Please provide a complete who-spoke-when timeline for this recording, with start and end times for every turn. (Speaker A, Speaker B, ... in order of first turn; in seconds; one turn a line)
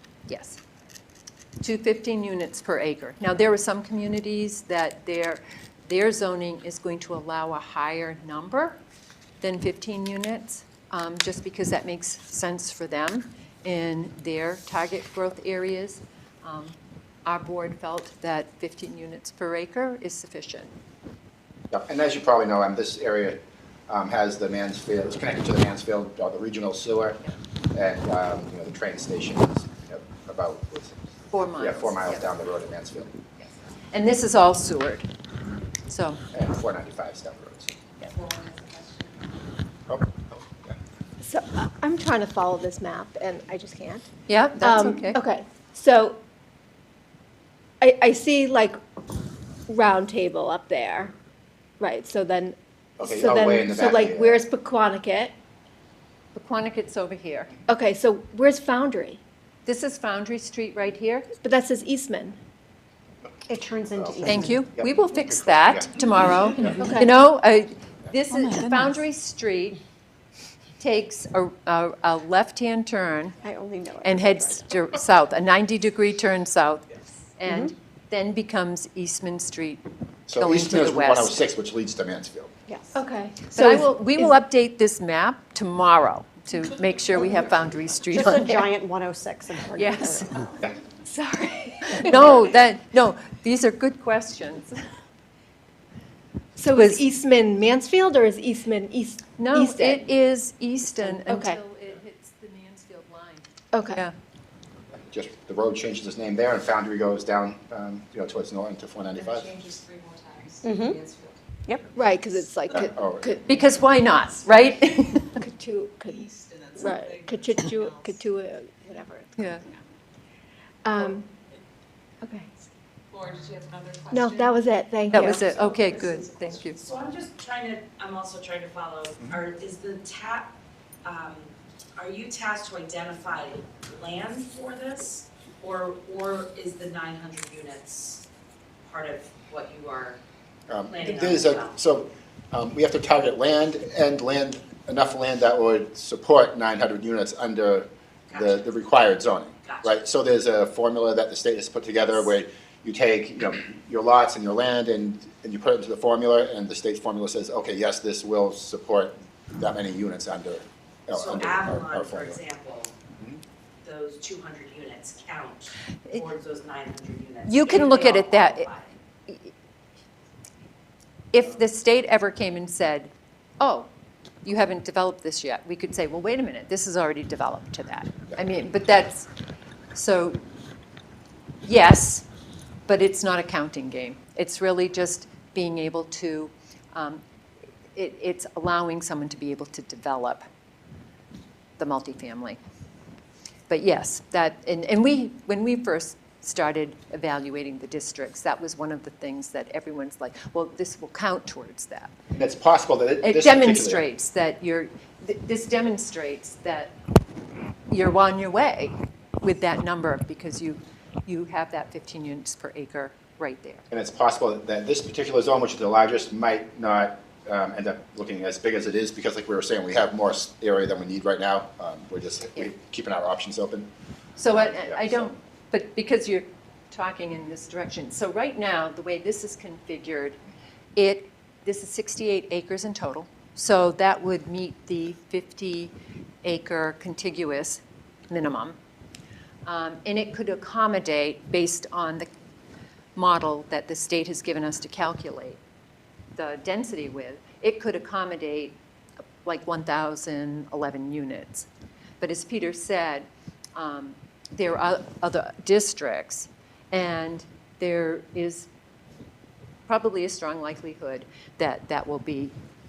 Speaker A: 0.3-0.6
Speaker A: 1.6-8.8
Speaker A: 9.4-20.7
Speaker B: 21.7-31.0
Speaker A: 31.3-32.3
Speaker B: 31.6-33.1
Speaker A: 33.4-35.1
Speaker A: 35.8-36.2
Speaker B: 36.3-37.8
Speaker C: 38.0-39.4
Speaker B: 39.9-40.8
Speaker D: 41.2-44.0
Speaker A: 44.3-45.2
Speaker D: 44.6-46.2
Speaker D: 47.8-48.8
Speaker D: 49.7-51.1
Speaker D: 51.8-55.3
Speaker B: 53.0-54.4
Speaker A: 56.3-57.5
Speaker D: 57.7-59.2
Speaker A: 59.6-61.3
Speaker D: 61.4-62.4
Speaker E: 63.5-64.6
Speaker B: 63.9-65.9
Speaker A: 64.3-69.8
Speaker B: 66.5-67.0
Speaker D: 66.8-67.1
Speaker A: 70.8-73.4
Speaker E: 73.4-74.7
Speaker A: 74.0-79.8
Speaker E: 77.5-77.7
Speaker B: 80.3-82.5
Speaker A: 80.3-81.4
Speaker E: 82.7-83.0
Speaker D: 82.9-84.3
Speaker A: 83.5-88.7
Speaker E: 83.5-83.8
Speaker E: 88.1-90.5
Speaker A: 89.8-90.4
Speaker D: 91.0-92.3
Speaker A: 91.9-94.7
Speaker D: 96.6-100.1
Speaker A: 96.7-97.0
Speaker A: 99.4-104.1
Speaker D: 101.0-101.6
Speaker D: 103.7-104.0
Speaker B: 104.9-109.5
Speaker C: 109.2-111.4
Speaker E: 110.6-111.0
Speaker D: 111.9-113.4
Speaker B: 112.7-113.4
Speaker A: 113.5-115.4
Speaker D: 115.4-119.5
Speaker C: 116.0-118.2
Speaker A: 119.4-119.6
Speaker D: 120.8-121.3
Speaker D: 122.2-122.5
Speaker C: 123.1-124.6
Speaker D: 124.1-125.4
Speaker A: 125.1-126.8
Speaker C: 125.5-125.9
Speaker F: 126.7-130.5
Speaker F: 131.0-138.2
Speaker F: 138.8-140.2
Speaker B: 140.7-162.4
Speaker F: 140.9-141.8
Speaker F: 148.3-148.7
Speaker F: 149.6-150.0
Speaker F: 161.1-162.9
Speaker B: 163.1-163.4
Speaker F: 163.8-168.9
Speaker A: 167.5-168.7
Speaker A: 171.3-173.9
Speaker A: 174.4-179.3
Speaker A: 179.9-180.4
Speaker A: 181.6-182.2
Speaker A: 182.9-187.2
Speaker A: 187.9-190.4
Speaker A: 191.8-192.6
Speaker A: 193.7-202.1
Speaker B: 202.3-204.0
Speaker A: 203.2-206.9
Speaker A: 207.9-213.8
Speaker B: 213.9-223.9
Speaker A: 224.4-230.4
Speaker B: 224.5-225.3
Speaker A: 230.9-235.9
Speaker A: 236.4-238.8
Speaker A: 239.6-242.3
Speaker A: 243.1-245.6
Speaker A: 246.3-248.8
Speaker A: 249.4-251.7
Speaker A: 252.2-258.7
Speaker A: 259.9-262.5